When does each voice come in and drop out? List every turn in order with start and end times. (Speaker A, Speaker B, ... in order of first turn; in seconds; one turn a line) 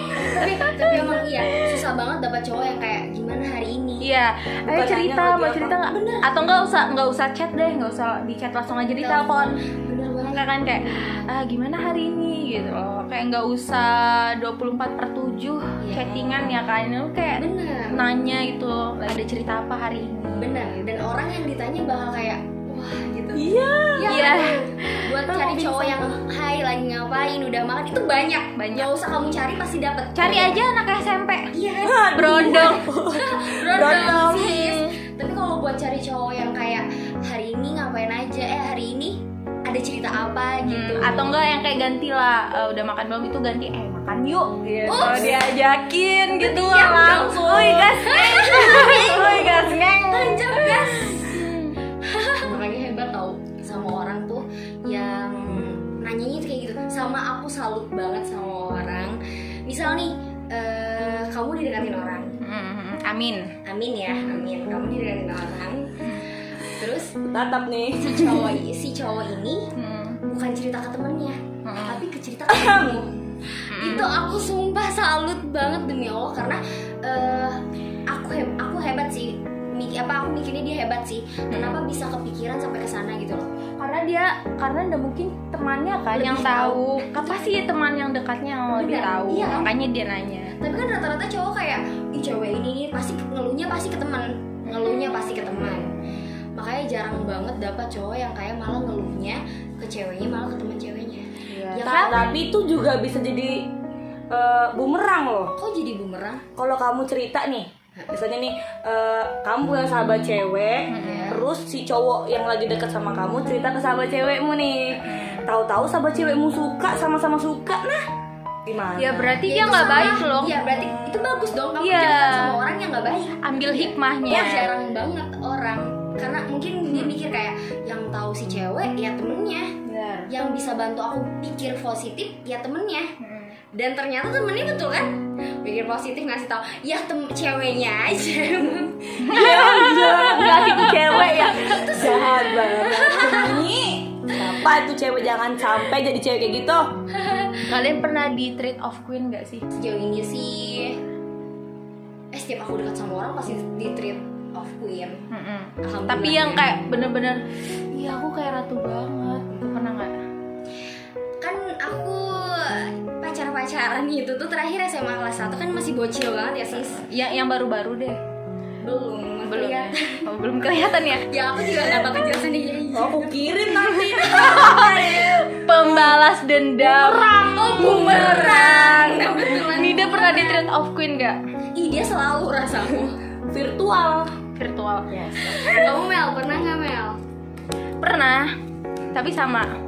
Speaker A: 0.1-4.1
Speaker B: 0.8-1.1
Speaker B: 4.0-9.6
Speaker C: 4.7-5.8
Speaker A: 5.9-6.3
Speaker A: 9.0-11.3
Speaker B: 10.3-20.6
Speaker A: 15.8-16.1
Speaker C: 16.0-16.6
Speaker A: 17.4-18.0
Speaker A: 20.4-30.6
Speaker C: 23.4-24.3
Speaker B: 24.1-26.1
Speaker B: 28.6-28.9
Speaker B: 30.2-31.5
Speaker A: 31.5-41.4
Speaker C: 31.9-34.6
Speaker B: 32.1-32.9
Speaker B: 33.8-34.9
Speaker B: 40.7-51.8
Speaker A: 44.9-45.4
Speaker C: 45.0-45.5
Speaker A: 46.4-62.4
Speaker C: 47.5-47.9
Speaker B: 62.4-63.5
Speaker A: 63.6-67.2
Speaker C: 67.2-68.4
Speaker A: 68.0-69.7
Speaker B: 69.8-70.2
Speaker A: 70.2-83.5
Speaker B: 71.7-72.0
Speaker C: 72.5-73.1
Speaker B: 73.7-74.1
Speaker B: 81.5-81.8
Speaker B: 83.8-90.5
Speaker A: 86.1-87.5
Speaker A: 88.8-89.7
Speaker A: 90.6-95.9
Speaker B: 94.7-95.4
Speaker A: 96.5-102.3
Speaker B: 101.5-102.3
Speaker C: 101.8-103.7
Speaker C: 104.3-105.5
Speaker A: 105.6-106.4
Speaker C: 106.6-118.1
Speaker B: 110.9-111.4
Speaker A: 111.0-111.4
Speaker B: 115.0-115.5
Speaker C: 118.7-119.4
Speaker B: 119.0-120.6
Speaker A: 119.4-129.8
Speaker C: 120.8-121.2
Speaker B: 121.8-122.6
Speaker B: 123.4-124.7
Speaker C: 124.3-124.6
Speaker B: 129.8-130.3
Speaker A: 130.3-133.1
Speaker B: 133.2-133.6
Speaker A: 133.7-139.2
Speaker C: 139.2-146.9
Speaker B: 139.2-141.8
Speaker A: 141.1-143.6
Speaker A: 147.1-147.7
Speaker B: 147.7-149.7
Speaker A: 149.8-151.0
Speaker A: 152.3-155.2
Speaker B: 155.3-160.1
Speaker A: 155.8-156.7
Speaker A: 161.4-167.1
Speaker B: 167.1-168.2
Speaker A: 168.8-170.2
Speaker B: 169.5-171.3
Speaker A: 171.3-173.5
Speaker C: 172.9-176.2
Speaker B: 173.8-181.4
Speaker C: 176.8-178.6
Speaker A: 177.2-180.6
Speaker A: 181.8-183.2
Speaker C: 183.5-184.3
Speaker B: 184.6-185.9
Speaker A: 185.4-187.2
Speaker B: 188.0-188.6
Speaker B: 189.1-189.7